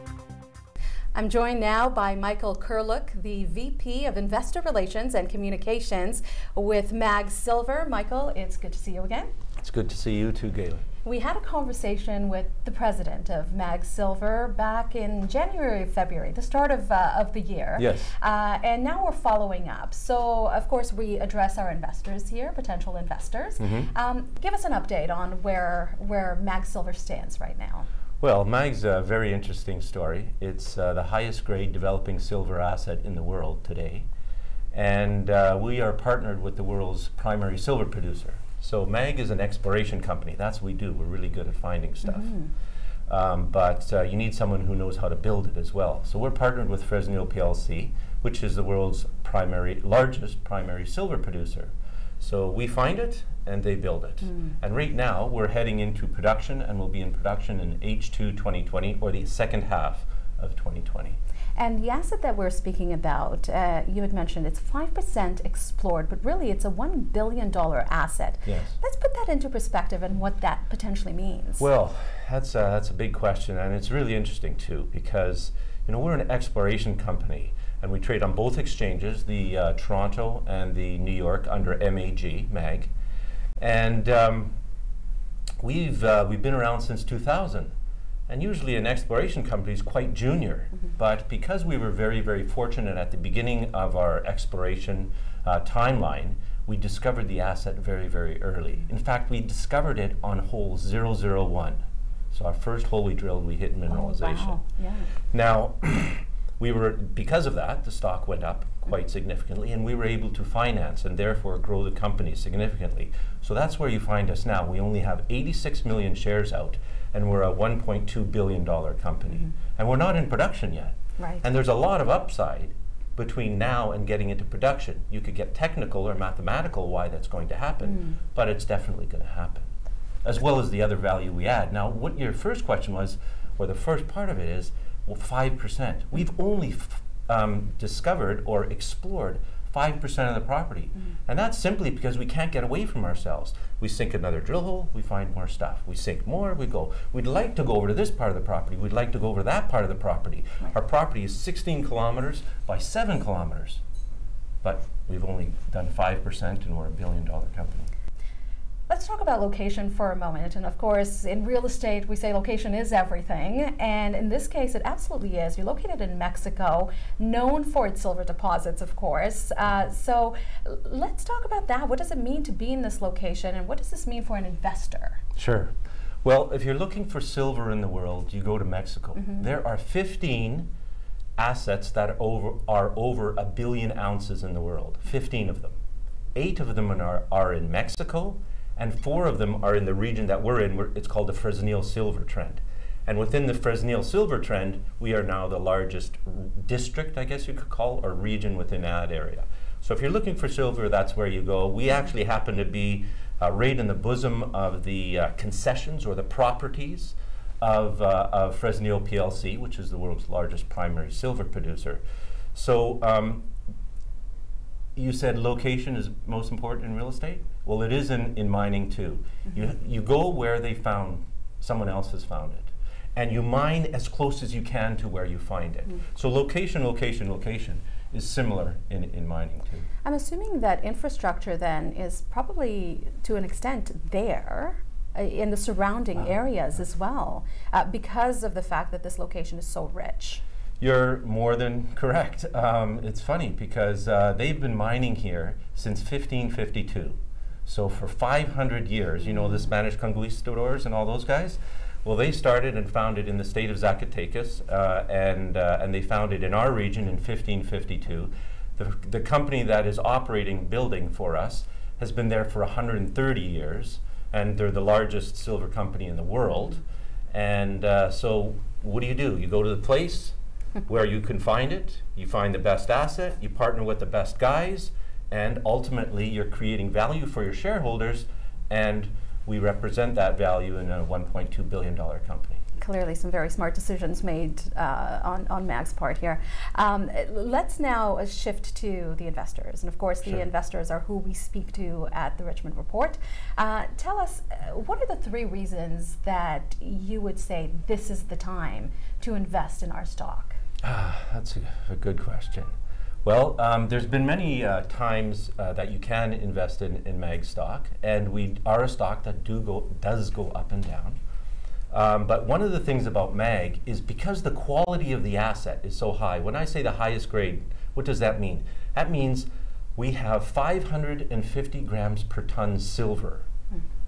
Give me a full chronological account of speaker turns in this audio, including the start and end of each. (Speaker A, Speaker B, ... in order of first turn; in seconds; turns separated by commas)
Speaker A: 1.1-9.3, Speaker B: 9.6-10.8, Speaker A: 11.0-27.9, Speaker B: 17.8-18.1, Speaker B: 23.6-23.9, Speaker B: 28.2-34.1, Speaker B: 34.7-42.4, Speaker B: 43.1-61.2, Speaker A: 61.6-71.7, Speaker B: 68.5-68.7, Speaker B: 71.6-82.9, Speaker B: 83.6-84.5, Speaker B: 85.6-87.7, Speaker B: 88.3-101.8, Speaker B: 102.3-104.6, Speaker A: 103.9-105.1, Speaker B: 105.3-129.7, Speaker A: 121.2-121.4, Speaker B: 130.2-153.8, Speaker B: 154.6-157.9, Speaker A: 158.9-175.2, Speaker B: 175.4-175.7, Speaker B: 176.2-180.7, Speaker B: 181.4-185.8, Speaker B: 186.3-212.0, Speaker B: 212.5-213.5, Speaker B: 215.0-229.9, Speaker A: 230.0-240.4, Speaker B: 240.8-270.4, Speaker B: 270.9-282.6, Speaker A: 282.8-300.6, Speaker B: 300.8-302.7, Speaker B: 303.2-311.2, Speaker B: 311.9-323.4